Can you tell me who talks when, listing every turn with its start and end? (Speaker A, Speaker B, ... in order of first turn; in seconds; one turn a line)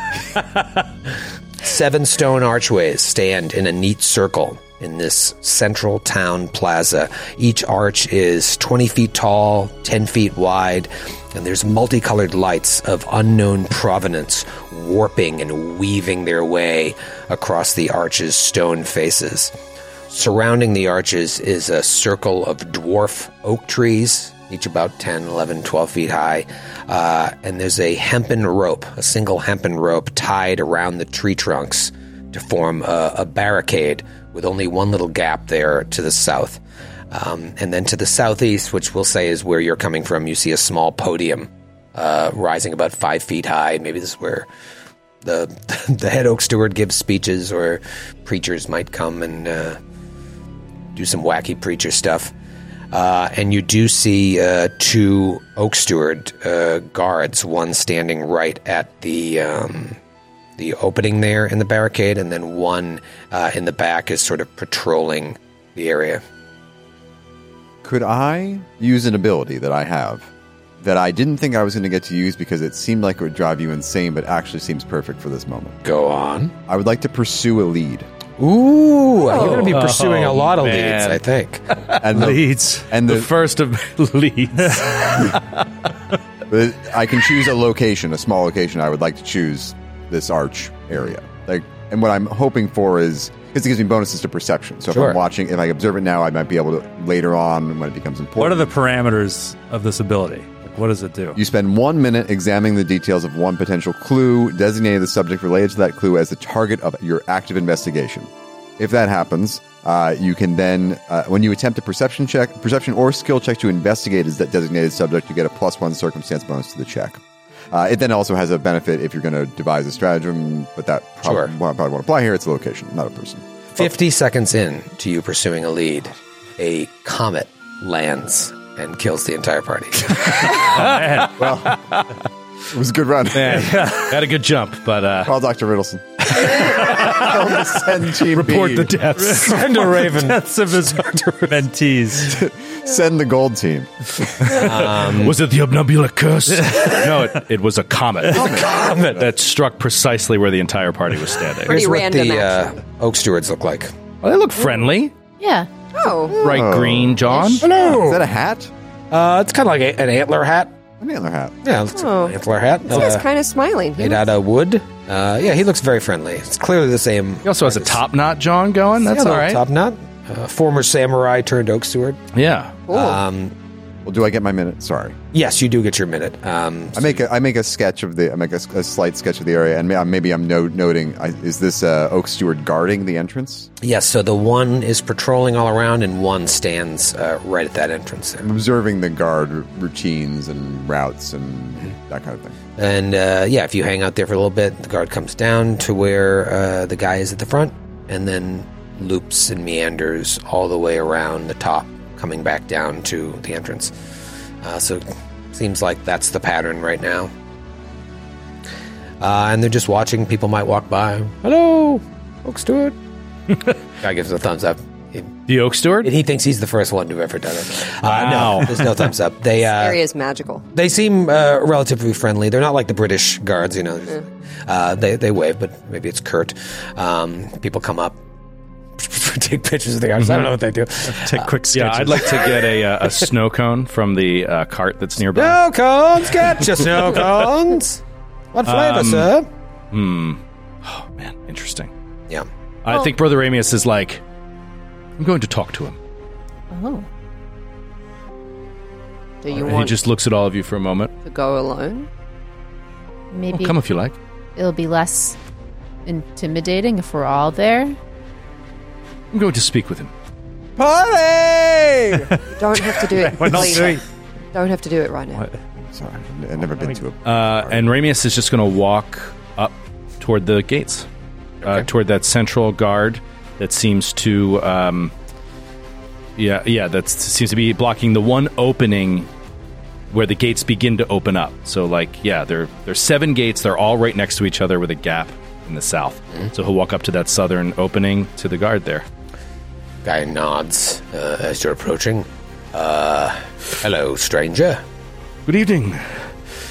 Speaker A: 1.6-19.5
Speaker A: 20.1-44.5
Speaker A: 45.2-49.8
Speaker A: 50.9-52.3
Speaker A: 52.9-60.0
Speaker A: 60.6-66.2
Speaker B: 67.8-70.3
Speaker B: 70.8-75.8
Speaker A: 75.8-76.5
Speaker B: 76.7-78.1
Speaker A: 78.4-81.6
Speaker C: 79.3-79.8
Speaker D: 79.5-81.2
Speaker D: 81.9-82.4
Speaker B: 82.0-83.3
Speaker E: 82.1-82.9
Speaker D: 83.0-85.6
Speaker B: 86.5-98.8
Speaker A: 94.9-95.2
Speaker E: 98.4-101.4
Speaker B: 101.4-117.2
Speaker B: 117.7-123.9
Speaker A: 121.2-121.5
Speaker A: 123.8-130.5
Speaker D: 130.5-132.1
Speaker E: 130.6-131.4
Speaker B: 131.4-131.8
Speaker B: 132.7-133.9
Speaker D: 133.3-135.3
Speaker B: 135.2-139.0
Speaker D: 136.4-137.6
Speaker D: 138.1-139.8
Speaker E: 139.2-142.4
Speaker A: 139.4-140.4
Speaker B: 142.3-144.5
Speaker D: 144.5-151.8
Speaker A: 144.5-145.4
Speaker B: 148.3-149.2
Speaker A: 148.3-149.3
Speaker C: 151.7-152.7
Speaker A: 151.7-153.9
Speaker D: 154.2-155.1
Speaker F: 155.4-155.7
Speaker C: 155.9-156.6
Speaker B: 156.3-158.7
Speaker D: 156.4-157.7
Speaker A: 157.6-158.2
Speaker A: 159.1-160.8
Speaker B: 161.0-161.6
Speaker A: 161.6-163.3
Speaker C: 161.9-162.4
Speaker C: 162.9-164.2
Speaker A: 164.0-168.0
Speaker D: 167.4-169.6
Speaker A: 169.0-172.2
Speaker D: 172.3-172.8
Speaker C: 172.9-173.2
Speaker A: 172.9-173.5
Speaker B: 174.1-175.2
Speaker A: 175.3-177.2
Speaker B: 176.9-183.7
Speaker A: 183.8-188.5
Speaker B: 188.4-192.6
Speaker A: 192.8-203.9
Speaker A: 204.6-207.3
Speaker A: 209.2-213.0
Speaker A: 214.0-215.3
Speaker D: 215.5-216.1
Speaker A: 216.0-220.0
Speaker D: 218.0-218.9
Speaker C: 219.8-220.6
Speaker A: 220.7-228.2
Speaker A: 229.0-231.5
Speaker E: 231.1-232.4
Speaker D: 231.7-235.6
Speaker A: 235.3-238.0
Speaker A: 238.5-239.5
Speaker D: 238.7-239.3
Speaker D: 239.9-241.9
Speaker D: 242.8-244.2
Speaker D: 245.2-246.0
Speaker F: 246.7-247.1
Speaker C: 249.4-250.0
Speaker D: 249.5-251.1
Speaker C: 251.2-252.1
Speaker F: 253.3-253.8
Speaker D: 253.5-254.2
Speaker F: 254.6-255.4
Speaker F: 256.1-258.0
Speaker D: 259.3-260.1
Speaker B: 260.8-262.3
Speaker E: 262.3-264.0
Speaker C: 262.5-264.0
Speaker B: 263.5-263.9
Speaker C: 264.5-265.4
Speaker E: 265.3-265.6
Speaker B: 265.8-267.9
Speaker D: 267.2-271.1
Speaker D: 271.6-275.1
Speaker D: 276.4-279.3
Speaker D: 280.1-289.1
Speaker A: 290.0-294.8
Speaker D: 295.5-296.3